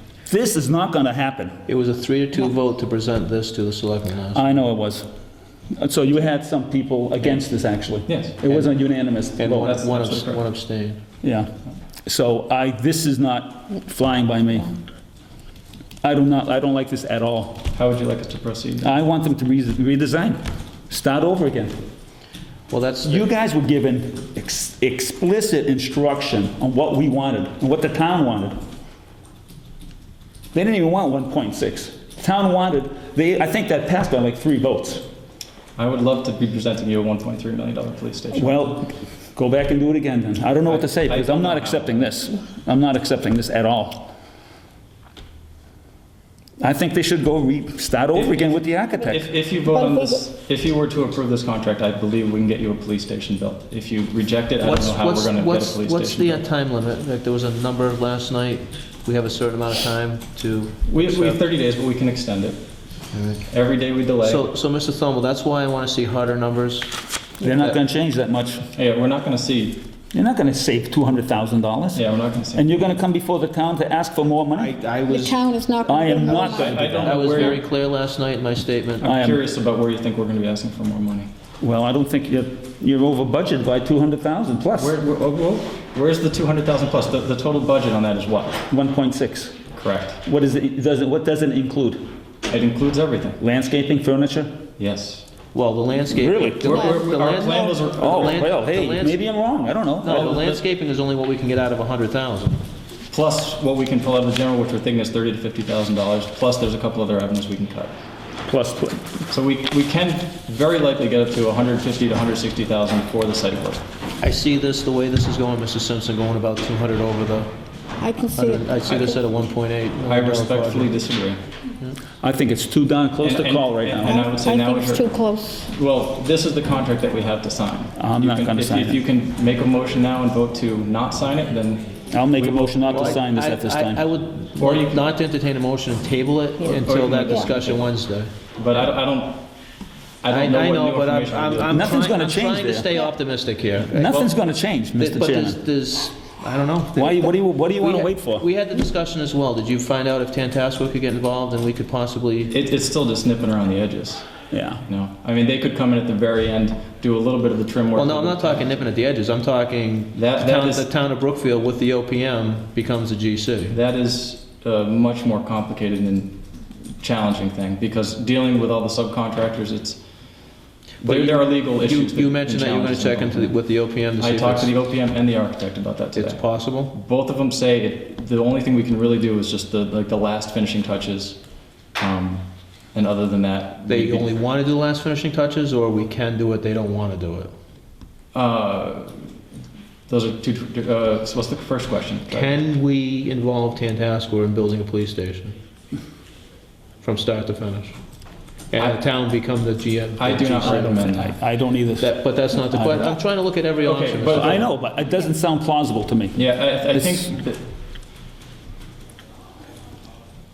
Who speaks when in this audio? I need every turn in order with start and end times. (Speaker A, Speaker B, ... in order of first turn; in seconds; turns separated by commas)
Speaker A: 0.2-1.5, Speaker B: 1.6-4.4, Speaker A: 4.3-5.0, Speaker A: 5.7-9.8, Speaker C: 8.1-8.4, Speaker B: 9.4-11.0, Speaker C: 9.5-10.4, Speaker A: 11.2-11.5, Speaker A: 12.0-14.8, Speaker A: 16.0-17.7, Speaker C: 17.7-18.9, Speaker A: 18.8-21.8, Speaker B: 22.7-23.2, Speaker A: 23.0-28.6, Speaker A: 30.5-35.0, Speaker C: 35.8-38.7, Speaker A: 38.3-44.1, Speaker C: 40.6-42.1, Speaker A: 46.6-49.3, Speaker C: 48.1-56.4, Speaker B: 54.6-61.4, Speaker C: 60.9-62.6, Speaker B: 63.1-63.5, Speaker C: 63.5-64.5, Speaker B: 64.2-67.0, Speaker A: 67.4-68.7, Speaker C: 68.7-69.8, Speaker A: 70.1-74.8, Speaker C: 71.9-72.6, Speaker B: 74.6-75.4, Speaker D: 75.1-76.9, Speaker A: 75.8-77.6, Speaker C: 76.3-77.6, Speaker B: 77.0-79.0, Speaker C: 79.0-81.3, Speaker A: 79.0-79.4, Speaker A: 81.6-85.0, Speaker C: 84.8-88.6, Speaker A: 88.7-89.6, Speaker C: 89.7-90.2, Speaker A: 90.2-92.0, Speaker C: 92.5-93.4, Speaker A: 93.4-94.5, Speaker C: 94.8-95.2, Speaker B: 95.5-99.2, Speaker A: 96.1-96.9, Speaker C: 96.6-98.5, Speaker A: 98.0-100.3, Speaker B: 100.0-102.6, Speaker C: 100.1-100.6, Speaker C: 103.1-107.9, Speaker A: 108.5-109.1, Speaker C: 109.3-113.8, Speaker B: 114.2-117.5, Speaker D: 118.0-119.2, Speaker B: 118.3-121.0, Speaker C: 118.8-119.2, Speaker C: 120.0-121.4, Speaker A: 122.2-124.3, Speaker C: 123.2-133.1, Speaker D: 124.0-125.7, Speaker A: 128.0-129.0, Speaker A: 132.1-134.0, Speaker B: 132.9-138.3, Speaker C: 134.6-135.0, Speaker C: 136.7-137.8, Speaker C: 138.5-139.4, Speaker C: 140.2-142.0, Speaker B: 140.3-144.3, Speaker A: 141.7-142.9, Speaker A: 143.8-145.6, Speaker B: 145.0-152.6, Speaker A: 146.9-148.4, Speaker C: 152.5-154.3, Speaker A: 154.5-154.8, Speaker C: 154.8-158.7, Speaker B: 157.9-163.8, Speaker C: 160.1-160.9, Speaker C: 163.7-166.4, Speaker C: 167.0-170.0, Speaker B: 171.0-174.7, Speaker C: 171.0-173.6, Speaker C: 174.2-181.4, Speaker B: 176.1-176.9, Speaker C: 181.9-184.3, Speaker B: 183.9-187.5, Speaker C: 188.3-189.2, Speaker C: 190.1-192.6, Speaker B: 192.3-195.6, Speaker B: 197.0-197.9, Speaker B: 198.7-201.2, Speaker C: 200.2-201.4, Speaker A: 201.0-203.2, Speaker B: 202.0-204.7, Speaker C: 203.8-204.6, Speaker A: 204.3-207.2, Speaker C: 206.3-207.6